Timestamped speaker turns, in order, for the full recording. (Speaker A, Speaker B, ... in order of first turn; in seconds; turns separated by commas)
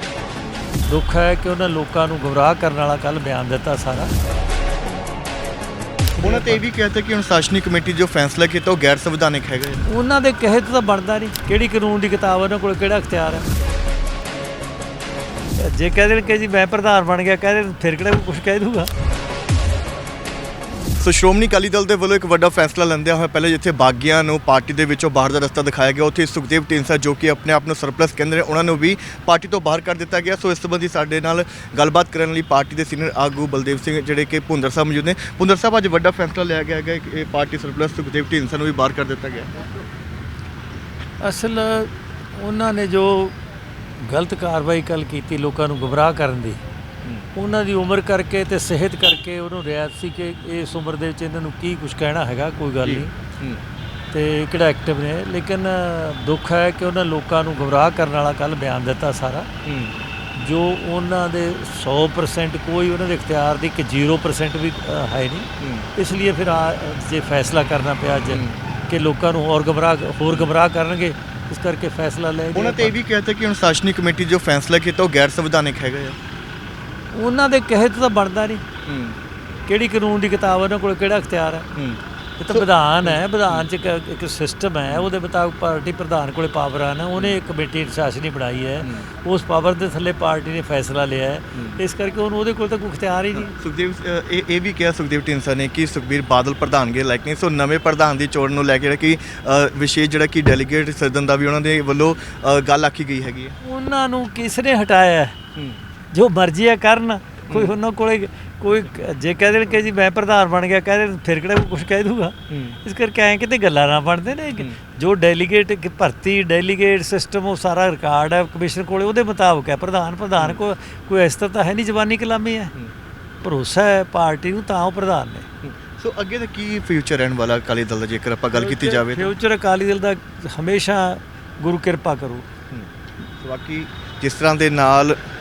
Speaker A: 0.9-4.1, Speaker A: 6.1-6.6, Speaker B: 6.2-9.8, Speaker A: 9.8-13.5, Speaker A: 15.6-18.9, Speaker B: 21.0-39.6, Speaker A: 41.2-43.4, Speaker A: 44.0-46.6, Speaker A: 47.4-53.1, Speaker B: 52.8-53.6, Speaker A: 54.1-59.5, Speaker B: 59.6-60.0, Speaker A: 60.4-72.9, Speaker B: 65.6-65.9, Speaker B: 68.3-68.6, Speaker B: 72.5-76.2, Speaker A: 77.1-78.6, Speaker B: 78.9-79.2, Speaker A: 79.7-81.7, Speaker B: 81.8-83.7, Speaker A: 82.4-93.5, Speaker B: 88.8-89.1, Speaker B: 93.3-103.6, Speaker A: 103.6-105.4, Speaker B: 105.6-105.8, Speaker A: 106.1-122.7, Speaker B: 107.5-107.7, Speaker B: 112.5-112.8, Speaker A: 123.4-125.5, Speaker B: 125.6-129.3, Speaker A: 128.5-132.5, Speaker B: 132.7-135.2